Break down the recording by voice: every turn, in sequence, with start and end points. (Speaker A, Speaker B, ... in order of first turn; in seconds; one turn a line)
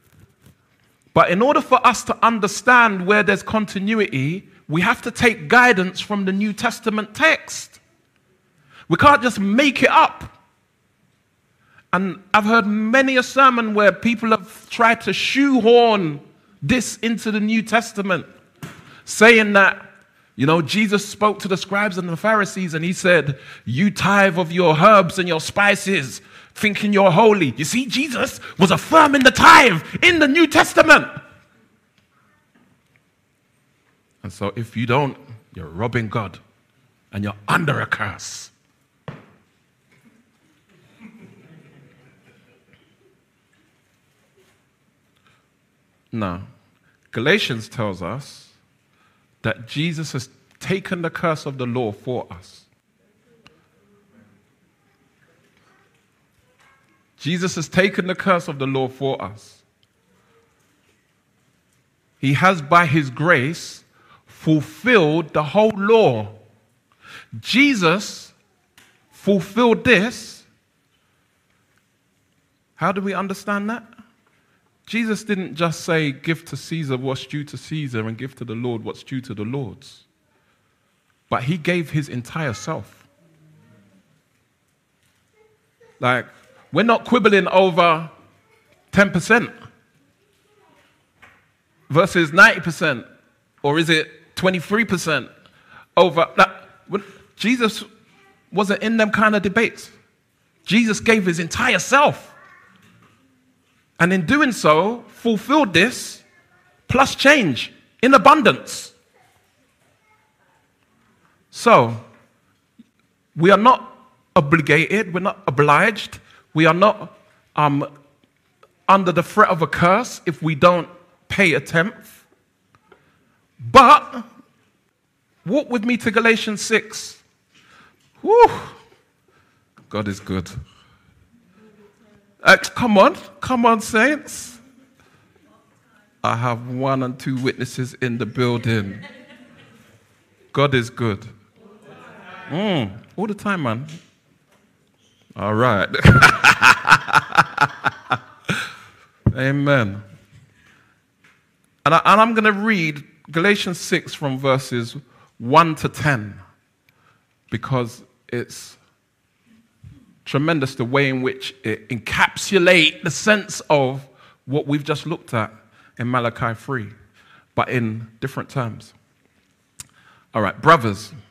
Speaker A: 1.1-7.8
Speaker A: 8.9-10.3
Speaker A: 11.9-18.3
Speaker A: 19.0-31.1
Speaker A: 34.2-36.4
Speaker A: 37.1-38.5
Speaker A: 46.1-46.5
Speaker A: 47.1-48.5
Speaker A: 49.4-52.6
Speaker A: 57.2-59.6
Speaker A: 62.2-66.3
Speaker A: 67.4-68.3
Speaker A: 69.1-70.5
Speaker A: 72.8-73.8
Speaker A: 74.9-80.0
Speaker A: 81.3-83.0
Speaker A: 86.0-88.1
Speaker A: 88.9-89.5
Speaker A: 91.9-93.0
Speaker A: 93.6-95.3
Speaker A: 96.0-97.9
Speaker A: 98.5-99.9
Speaker A: 100.7-102.3
Speaker A: 104.0-106.2
Speaker A: 106.9-108.9
Speaker A: 111.5-112.0
Speaker A: 113.3-117.9
Speaker A: 118.9-122.2
Speaker A: 123.6-124.3
Speaker A: 125.4-127.2
Speaker A: 128.2-128.8
Speaker A: 129.9-130.6
Speaker A: 132.4-134.6
Speaker A: 136.2-139.0
Speaker A: 140.5-141.3
Speaker A: 142.5-143.9
Speaker A: 145.3-148.2
Speaker A: 149.3-150.0
Speaker A: 151.8-156.4
Speaker A: 157.5-158.8
Speaker A: 160.2-166.9
Speaker A: 167.5-168.9
Speaker A: 170.3-171.1